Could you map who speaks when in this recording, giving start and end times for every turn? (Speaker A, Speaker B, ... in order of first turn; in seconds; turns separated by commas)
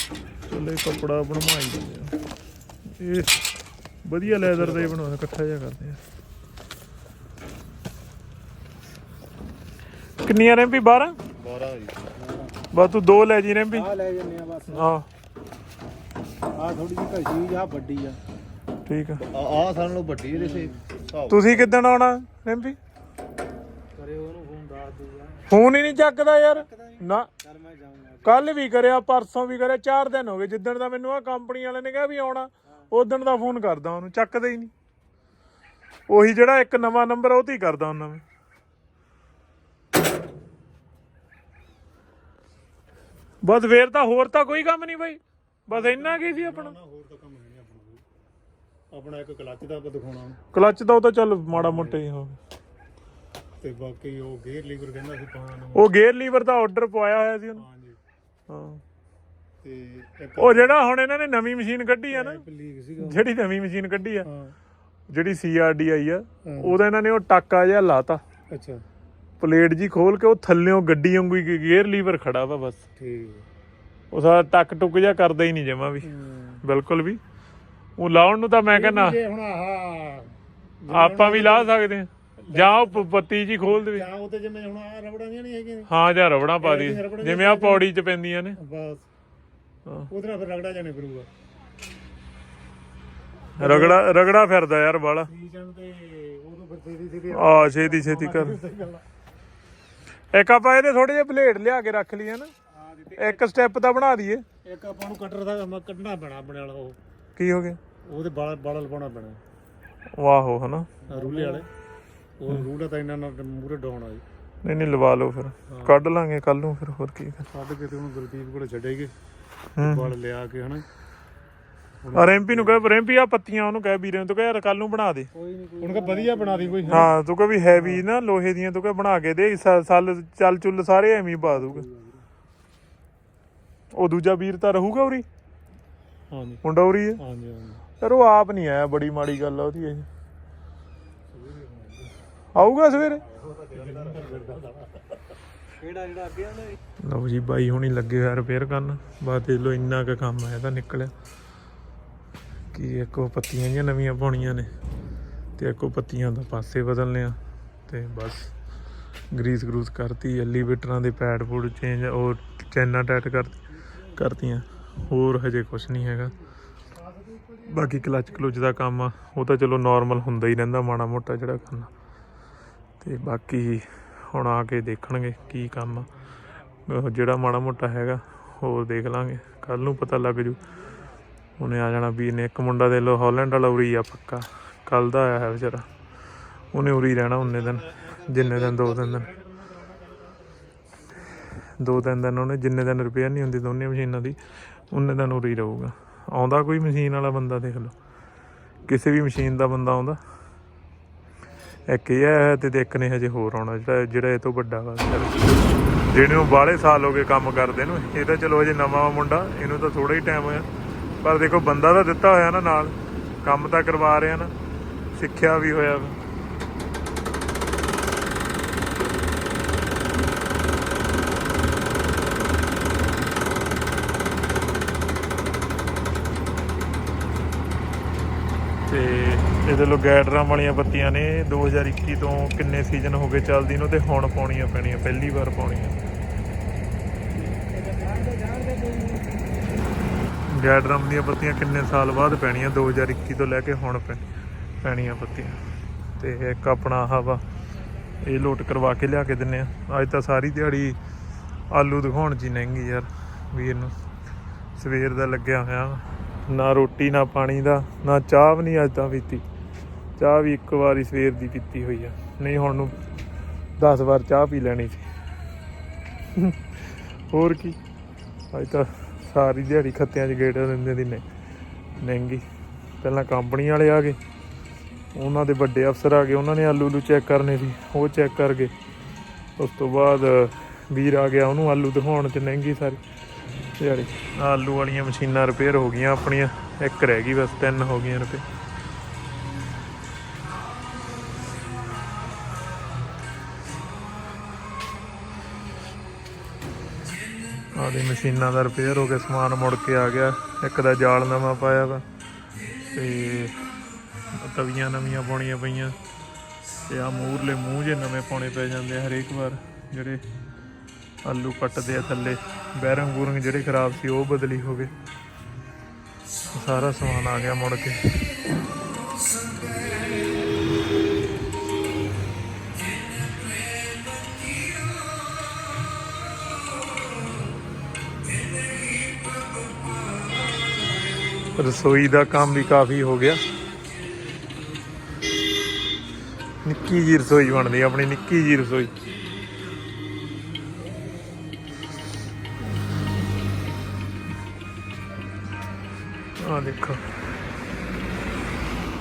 Speaker A: 0.5-2.2, Speaker A: 2.9-3.4, Speaker A: 4.0-6.0, Speaker A: 10.2-11.2, Speaker B: 11.4-12.0, Speaker C: 12.2-12.5, Speaker A: 12.7-13.9, Speaker C: 13.7-14.9, Speaker A: 14.7-15.1, Speaker C: 16.5-18.2, Speaker A: 18.9-19.2, Speaker B: 19.3-21.3, Speaker C: 20.3-20.8, Speaker A: 21.3-22.8, Speaker C: 23.9-25.4, Speaker A: 25.5-27.3, Speaker C: 26.5-28.4, Speaker A: 28.2-34.7, Speaker A: 36.1-38.2, Speaker A: 43.4-46.7, Speaker D: 45.7-48.0, Speaker D: 48.9-50.4, Speaker A: 50.5-52.4, Speaker D: 51.5-52.0, Speaker D: 53.6-55.8, Speaker A: 55.7-57.6, Speaker D: 57.7-58.0, Speaker A: 58.5-58.8, Speaker D: 59.6-60.8, Speaker A: 60.4-62.4, Speaker D: 62.1-63.2, Speaker A: 63.0-64.3, Speaker D: 64.2-64.5, Speaker A: 65.1-68.2, Speaker D: 66.5-66.7, Speaker D: 68.5-68.8, Speaker A: 69.4-72.8, Speaker D: 73.0-73.4, Speaker A: 74.1-76.1, Speaker D: 76.0-76.6, Speaker A: 76.6-77.2, Speaker A: 78.0-79.2, Speaker D: 78.7-81.7, Speaker A: 80.9-84.1, Speaker D: 82.5-83.1, Speaker D: 83.8-85.9, Speaker A: 85.9-88.6, Speaker D: 86.6-87.8, Speaker D: 88.6-89.0, Speaker D: 90.1-91.3, Speaker A: 93.6-95.3, Speaker D: 93.6-94.0, Speaker D: 95.3-99.0, Speaker A: 97.3-98.6, Speaker A: 100.3-102.5, Speaker D: 103.0-103.4, Speaker A: 103.2-104.4, Speaker D: 104.7-107.0, Speaker A: 107.3-107.8, Speaker D: 108.1-109.4, Speaker A: 110.1-110.9, Speaker D: 111.1-111.7, Speaker C: 111.1-111.6, Speaker D: 112.4-114.2, Speaker A: 114.6-117.5, Speaker D: 117.6-119.1, Speaker A: 119.8-120.1, Speaker D: 119.9-120.8, Speaker D: 122.0-122.8, Speaker A: 122.1-125.3, Speaker C: 125.3-127.1, Speaker D: 125.8-127.1, Speaker A: 126.9-131.9, Speaker A: 133.9-135.2, Speaker D: 136.3-136.6, Speaker A: 136.6-137.2, Speaker D: 137.4-137.8, Speaker A: 138.0-140.1, Speaker D: 141.3-142.1, Speaker A: 142.5-143.2, Speaker D: 143.4-145.0, Speaker C: 145.8-146.8, Speaker A: 147.0-151.1, Speaker A: 152.7-154.7, Speaker A: 155.6-157.4, Speaker A: 157.9-158.5, Speaker A: 159.3-166.3, Speaker D: 167.2-167.5, Speaker A: 167.6-171.9, Speaker A: 173.0-176.1, Speaker A: 176.8-180.6, Speaker A: 181.6-185.8, Speaker A: 186.7-189.3, Speaker D: 187.8-190.3, Speaker A: 191.8-194.4, Speaker A: 194.9-197.9, Speaker A: 198.9-200.2, Speaker A: 201.9-210.7, Speaker A: 211.2-214.5, Speaker A: 215.1-216.2, Speaker A: 228.9-235.9, Speaker C: 237.4-239.8, Speaker A: 240.5-244.2, Speaker A: 244.8-245.6, Speaker A: 246.2-247.4, Speaker A: 248.2-251.0, Speaker A: 251.7-253.9, Speaker A: 254.8-259.4, Speaker A: 260.2-262.9, Speaker A: 263.8-265.1, Speaker A: 266.3-267.8, Speaker A: 268.5-271.2, Speaker A: 272.0-272.4, Speaker A: 273.0-274.2, Speaker A: 275.1-278.7, Speaker A: 279.6-283.0, Speaker A: 283.8-288.4, Speaker A: 297.7-302.0, Speaker A: 302.9-303.6, Speaker A: 304.3-306.0, Speaker A: 306.9-310.2, Speaker A: 311.2-314.9, Speaker A: 316.5-318.4, Speaker A: 331.6-333.4, Speaker A: 336.6-338.9, Speaker A: 346.4-347.0